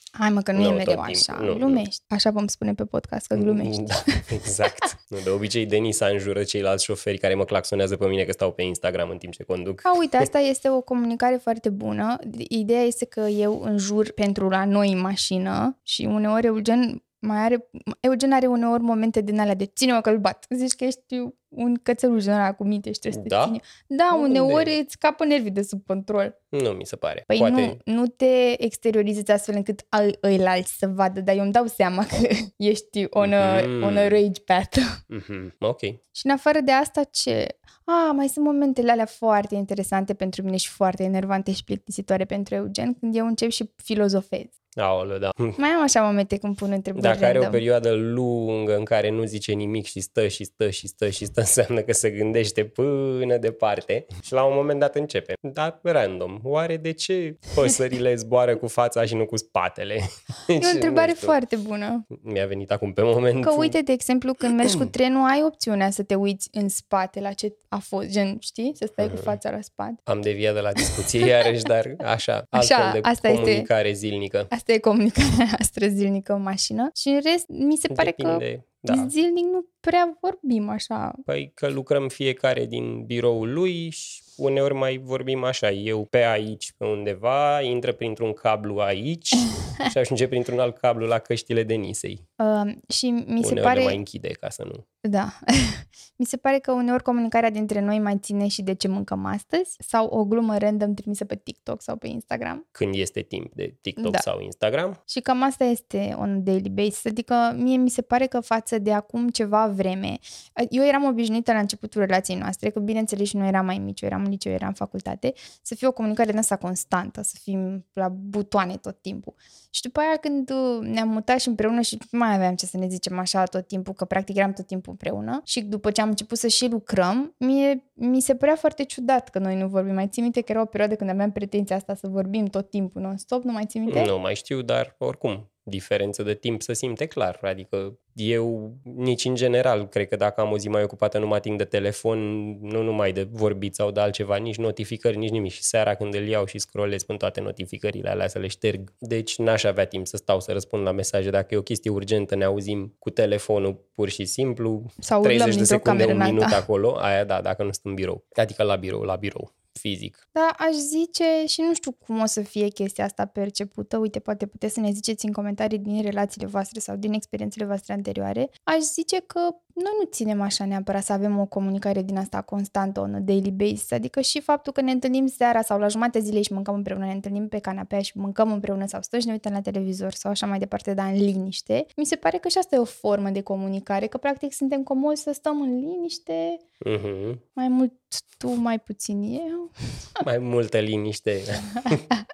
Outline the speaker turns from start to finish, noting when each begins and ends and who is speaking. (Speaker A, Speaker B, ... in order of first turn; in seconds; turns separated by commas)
Speaker A: 0.1-4.2, Speaker B: 0.6-1.8, Speaker B: 3.3-10.3, Speaker A: 9.8-26.4, Speaker B: 23.1-23.6, Speaker B: 24.1-24.8, Speaker B: 26.5-27.8, Speaker A: 27.3-35.0, Speaker B: 33.2-34.2, Speaker B: 35.1-36.0, Speaker A: 36.1-44.5, Speaker B: 44.8-45.6, Speaker A: 45.6-47.6, Speaker B: 47.0-61.4, Speaker A: 60.6-62.1, Speaker B: 62.1-63.8, Speaker A: 63.4-70.0, Speaker B: 69.0-69.3, Speaker B: 70.1-74.5, Speaker A: 71.2-71.5, Speaker A: 72.5-73.7, Speaker A: 74.5-81.2, Speaker B: 77.9-79.1, Speaker B: 81.3-92.2, Speaker A: 92.4-94.0, Speaker B: 93.4-94.8, Speaker A: 95.0-102.6, Speaker B: 102.8-105.0, Speaker A: 105.1-134.1, Speaker B: 133.9-160.2, Speaker A: 155.0-156.6, Speaker A: 160.3-186.6, Speaker B: 186.8-187.4, Speaker A: 187.6-190.2, Speaker B: 190.2-192.1, Speaker A: 191.9-192.2